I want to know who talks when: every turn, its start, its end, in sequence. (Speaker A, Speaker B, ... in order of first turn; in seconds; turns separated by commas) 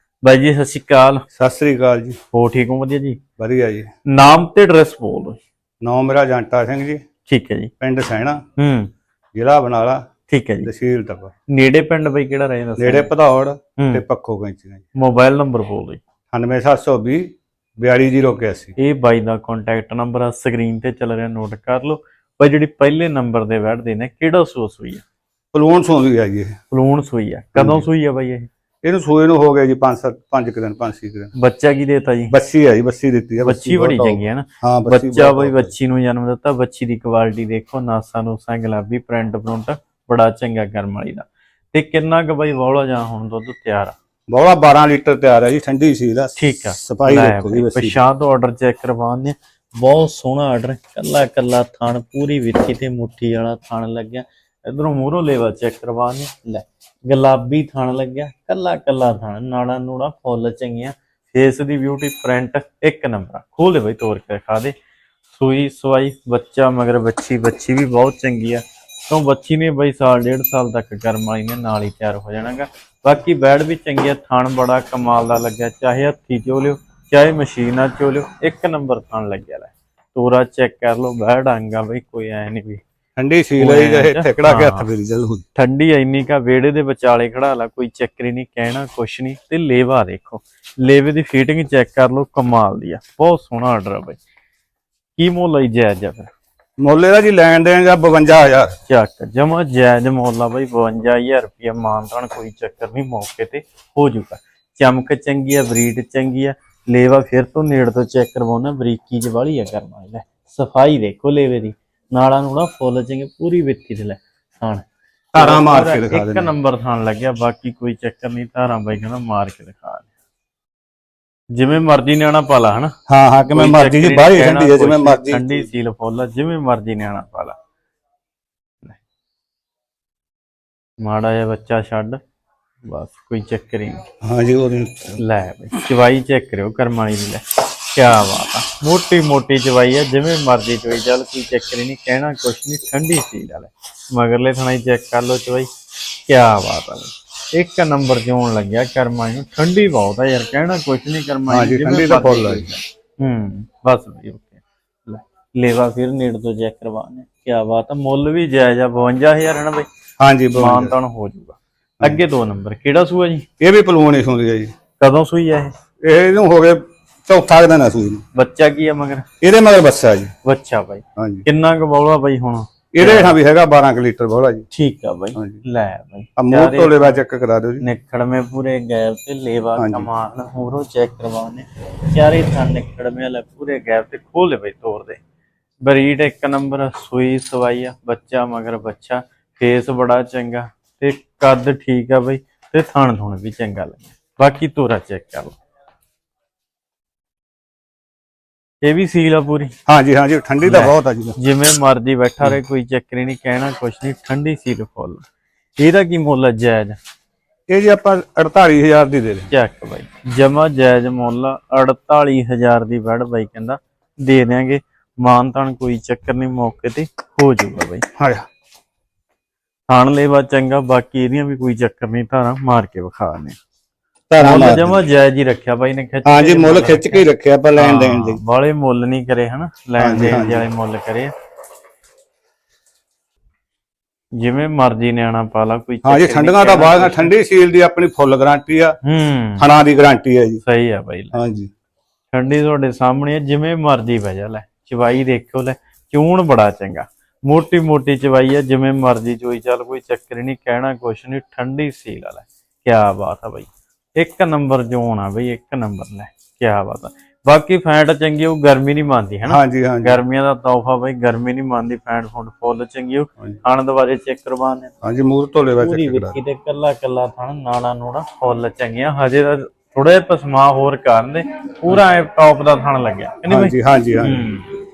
Speaker A: 0.2-1.2, Speaker B: 1.4-2.2, Speaker A: 2.3-3.2, Speaker B: 3.4-3.9, Speaker A: 4.1-5.4, Speaker B: 5.8-7.0, Speaker A: 7.3-7.7, Speaker B: 7.8-8.4, Speaker A: 8.6-8.9, Speaker B: 9.3-10.1, Speaker A: 10.3-10.7, Speaker B: 10.6-11.3, Speaker A: 11.5-13.1, Speaker B: 12.8-14.8, Speaker A: 13.8-14.0, Speaker A: 15.0-16.0, Speaker B: 16.3-18.8, Speaker A: 18.8-25.0, Speaker B: 25.5-26.6, Speaker A: 26.7-28.5, Speaker B: 27.6-27.9, Speaker B: 28.8-31.3, Speaker A: 31.4-32.3, Speaker B: 32.3-35.7, Speaker A: 33.5-44.0, Speaker B: 44.3-48.0, Speaker A: 46.4-64.7, Speaker A: 65.3-82.8, Speaker B: 83.2-85.5, Speaker A: 83.6-84.9, Speaker A: 85.5-94.2, Speaker A: 95.2-96.3, Speaker B: 96.8-98.7, Speaker A: 98.9-120.1, Speaker B: 115.3-116.5, Speaker A: 121.5-123.0, Speaker B: 123.1-125.7, Speaker A: 123.5-127.6, Speaker A: 131.0-132.2, Speaker A: 132.8-134.0, Speaker B: 134.2-135.2, Speaker A: 135.2-145.7, Speaker A: 146.3-159.9, Speaker B: 151.5-152.7, Speaker B: 160.2-161.0, Speaker A: 160.6-163.5, Speaker B: 163.6-164.7, Speaker A: 165.0-165.7, Speaker B: 166.0-168.2, Speaker A: 168.3-169.3, Speaker B: 169.4-170.3, Speaker A: 170.4-173.4, Speaker B: 171.2-171.4, Speaker B: 172.9-174.7, Speaker A: 174.7-177.2, Speaker B: 175.4-175.6, Speaker B: 176.4-177.9, Speaker A: 177.8-185.2, Speaker B: 179.8-180.1, Speaker A: 185.8-195.6, Speaker A: 198.8-199.8, Speaker B: 199.9-201.4, Speaker A: 200.6-205.2, Speaker A: 205.8-207.0, Speaker B: 207.7-209.5, Speaker A: 209.5-218.0, Speaker B: 218.2-218.4, Speaker A: 219.9-223.6, Speaker B: 224.3-225.0, Speaker A: 224.4-227.2, Speaker B: 226.2-228.4, Speaker A: 227.8-231.3, Speaker B: 230.0-230.7, Speaker A: 234.4-237.3, Speaker B: 236.1-239.0, Speaker A: 239.0-239.7, Speaker B: 239.6-240.6, Speaker A: 240.6-241.4, Speaker B: 241.3-241.7, Speaker A: 242.3-264.9, Speaker B: 259.5-260.2, Speaker B: 265.0-266.4, Speaker A: 265.8-274.7, Speaker B: 273.5-274.5